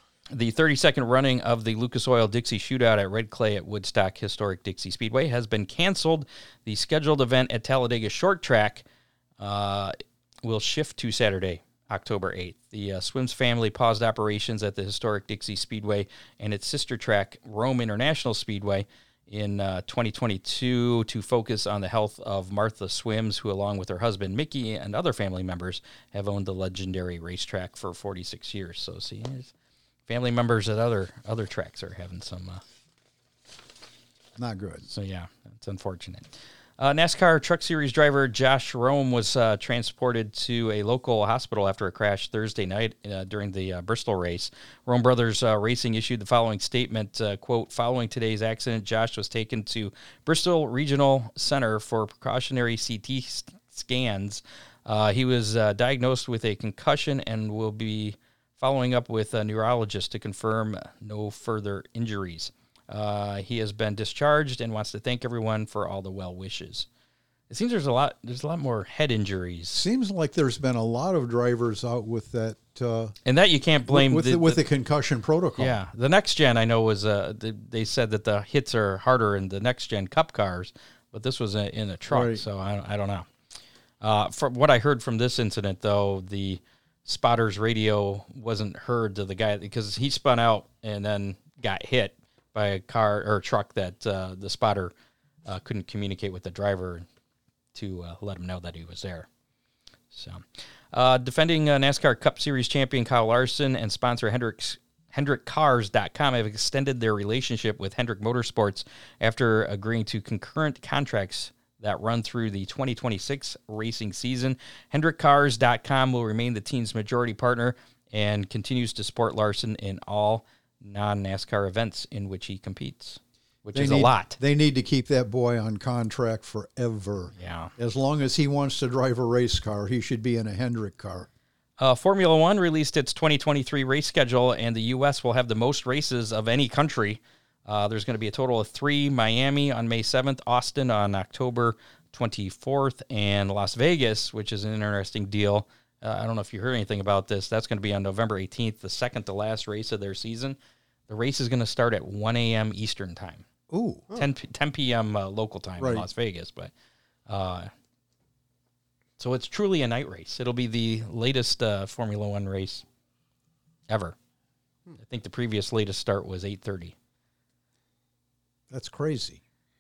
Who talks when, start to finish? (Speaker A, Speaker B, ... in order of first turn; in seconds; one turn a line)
Speaker A: 0.3-8.8
Speaker A: 9.4-29.5
Speaker A: 30.1-32.6
Speaker B: 34.4-34.9
Speaker A: 34.9-66.9
Speaker A: 67.5-69.8
Speaker B: 69.7-73.2
Speaker A: 73.2-74.6
Speaker B: 73.9-75.8
Speaker A: 75.6-83.3
Speaker B: 82.1-82.4
Speaker A: 84.0-94.9
Speaker A: 95.5-97.1
Speaker A: 97.7-99.3
Speaker A: 100.1-124.4
Speaker B: 123.7-131.3
Speaker A: 127.4-127.7
Speaker A: 131.8-150.6
Speaker A: 151.1-153.4
Speaker B: 153.7-154.1
Speaker A: 154.2-156.7
Speaker B: 155.8-156.1
Speaker A: 157.3-157.7
Speaker A: 159.2-162.8
Speaker A: 163.9-164.2
Speaker A: 165.0-166.9
Speaker B: 168.7-169.4